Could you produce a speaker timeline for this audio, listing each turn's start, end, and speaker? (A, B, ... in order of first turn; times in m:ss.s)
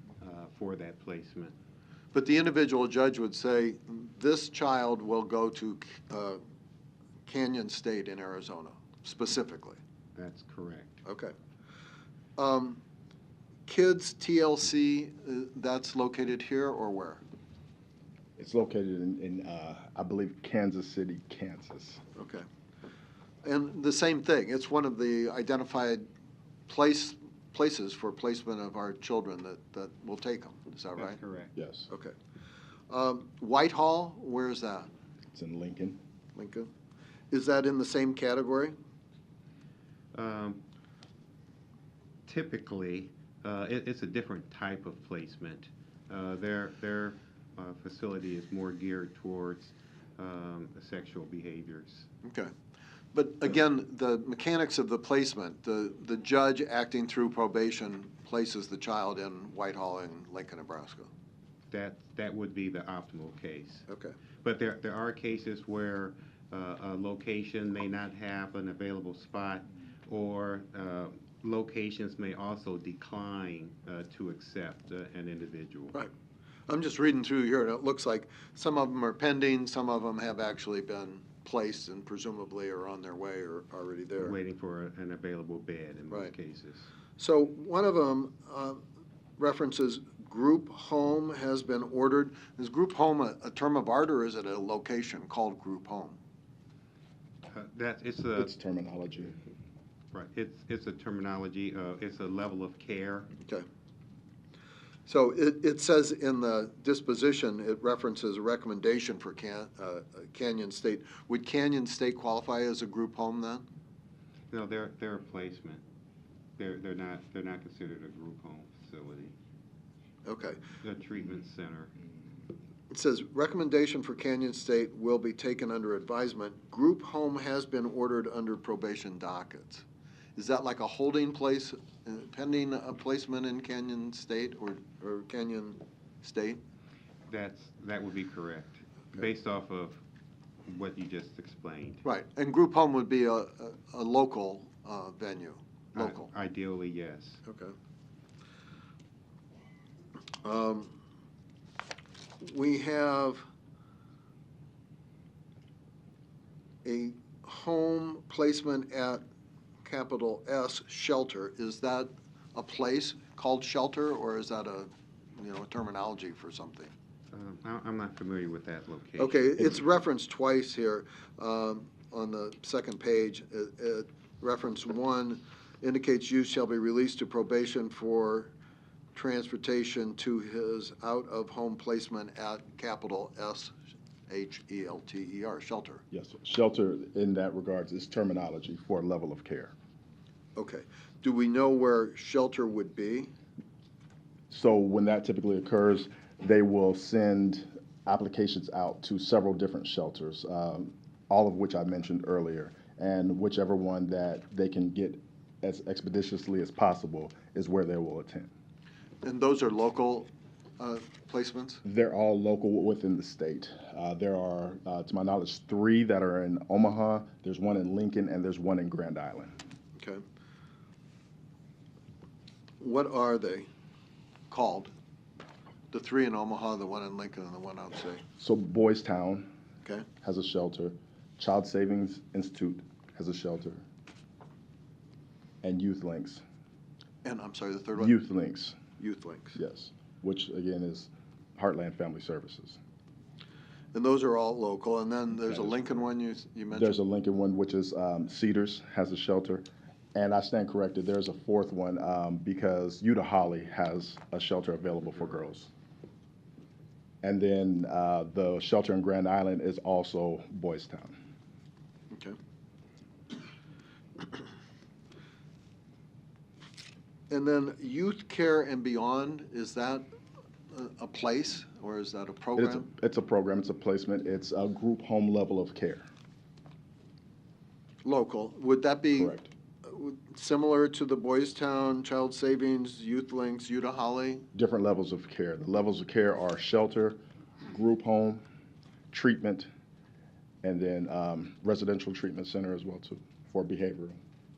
0:00.2-0:01.5 A
0:02.1-0:06.4 B
0:07.3-0:09.8 B
0:10.1-0:11.0 A
0:11.0-0:11.3 B
0:12.4-0:12.8 B
0:13.7-0:17.2 B
0:18.4-0:22.0 C
0:22.2-0:22.4 B
0:23.4-0:26.0 B
0:26.7-0:31.2 B
0:31.0-0:31.5 A
0:31.6-0:31.9 C
0:31.9-0:32.2 B
0:32.9-0:34.9 B
0:35.3-0:36.0 C
0:36.4-0:36.7 B
0:37.3-0:38.7 B
0:40.1-0:40.6 A
0:42.3-0:52.1 A
0:52.2-0:52.5 B
0:53.1-1:01.1 B
1:01.7-1:03.8 A
1:03.9-1:04.2 B
1:04.4-1:16.0 A
1:16.7-1:24.3 B
1:24.2-1:26.9 A
1:27.2-1:28.8 B
1:29.4-1:36.2 B
1:37.5-1:38.5 A
1:38.4-1:39.4 C
1:40.1-1:43.3 A
1:45.1-1:53.6 B
1:54.5-1:55.8 A
1:56.6-1:59.3 A
2:00.2-2:00.6 B
2:00.8-2:01.9 A
2:02.9-2:09.8 B
2:10.4-2:16.6 B
2:17.3-2:20.0 A
2:20.7-2:22.0 A
2:22.0-2:26.3 B
2:26.0-2:27.4 A
2:27.4-2:27.7 B
2:30.4-2:31.0 B
2:32.4-2:33.4 B
2:36.8-2:39.2 B
2:39.8-2:46.9 B
2:47.3-2:49.8 A
2:49.2-2:58.5 B
2:59.2-3:03.7 B
3:04.3-3:06.0 B
3:06.1-3:09.7 C
3:10.6-3:13.3 B
3:14.5-3:28.5 C
3:29.2-3:31.8 B
3:31.8-3:39.6 C
3:40.0-3:40.2 B
3:42.8-3:43.7 B
3:44.5-3:44.9 B
3:45.9-3:48.2 B
3:48.4-3:49.5 C
3:50.2-3:53.8 C
3:55.6-3:56.4 C
3:57.2-3:58.2 B
3:58.0-3:58.8 C
3:59.0-3:59.6 B
3:59.6-4:02.8 C
4:03.9-4:07.0 B
4:05.5-4:05.7 C
4:06.7-4:15.7 C
4:17.2-4:21.2 C
4:22.1-4:22.4 B
4:27.3-4:30.1 B
4:30.7-4:32.9 B
4:32.6-4:36.1 C
4:38.0-4:44.4 B
4:39.1-4:39.5 C
4:44.5-4:48.4 C
4:49.1-4:49.7 C
4:50.6-4:54.2 C